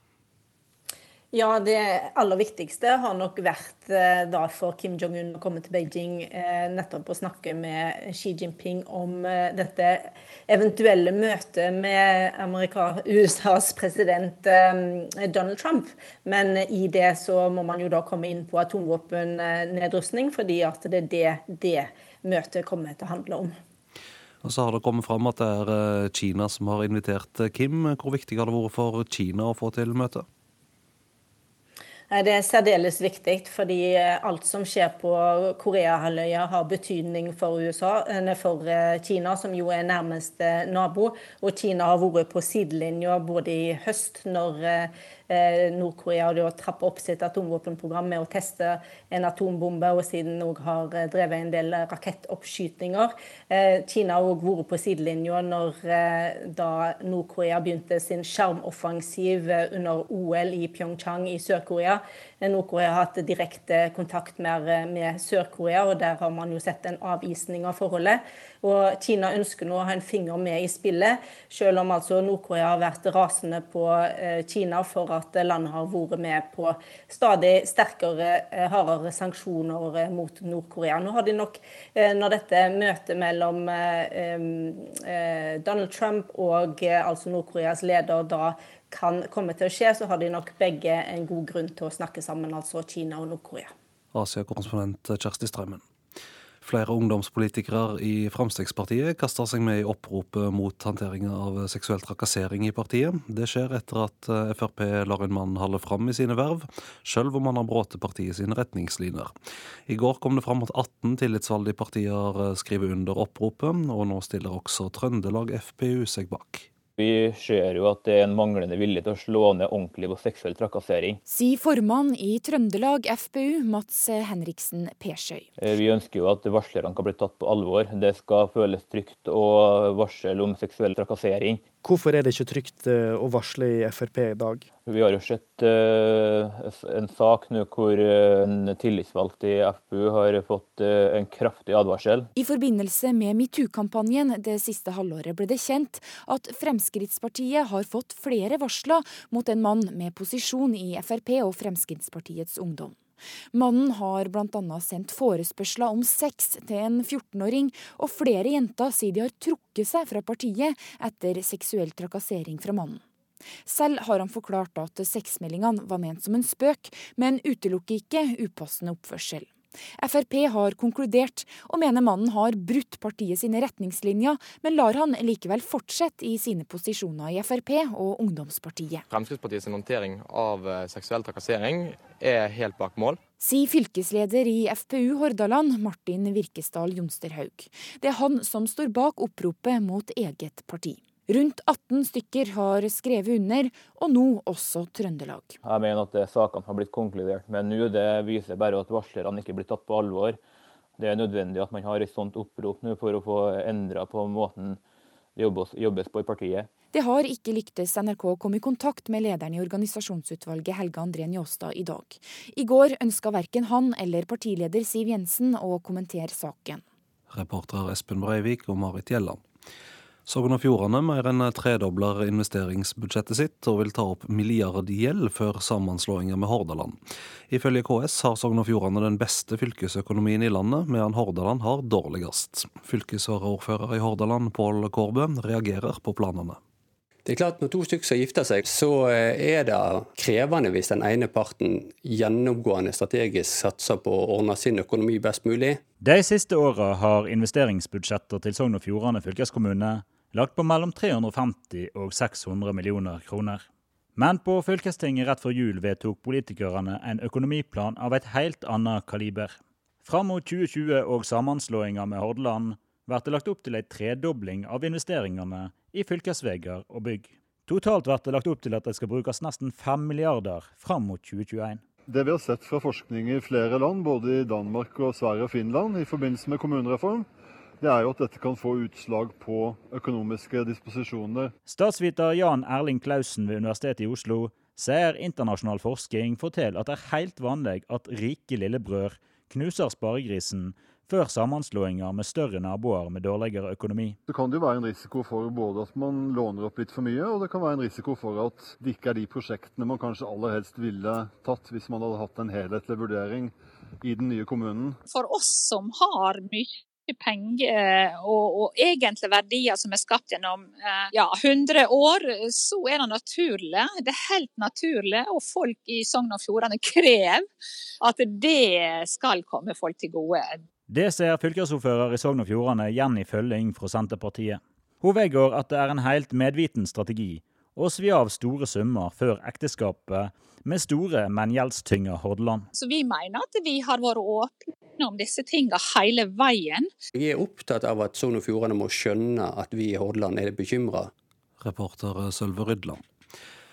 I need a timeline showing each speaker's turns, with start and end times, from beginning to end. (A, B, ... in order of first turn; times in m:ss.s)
0:01.3-0:23.5 A
0:24.4-0:30.2 B
0:32.1-1:33.7 A
1:34.1-1:35.8 B
1:36.6-1:49.3 B
1:49.9-1:56.7 B
1:57.0-2:01.2 C
2:01.3-2:05.5 D
2:05.6-2:11.6 C
2:11.8-2:14.7 E
2:14.8-2:22.3 C
2:22.3-2:33.0 D
2:33.5-2:43.0 D
2:43.6-2:59.0 D
2:59.1-3:03.2 F
3:03.4-3:15.6 D
3:15.6-3:20.4 C
3:21.0-3:24.8 C
3:25.4-3:26.7 C
3:26.9-3:36.8 D
3:37.3-3:39.4 B
3:40.2-3:56.6 B
3:57.2-4:05.8 G
4:06.0-4:13.6 H
4:14.2-4:31.8 H
4:32.1-4:37.3 I
4:37.8-4:41.5 I
4:41.7-4:54.2 H
4:54.3-5:05.0 I
5:05.1-5:17.5 J
5:18.0-5:20.6 J
5:20.9-5:32.7 H
5:32.7-5:36.9 J
5:37.1-5:41.1 G
5:41.6-5:43.0 B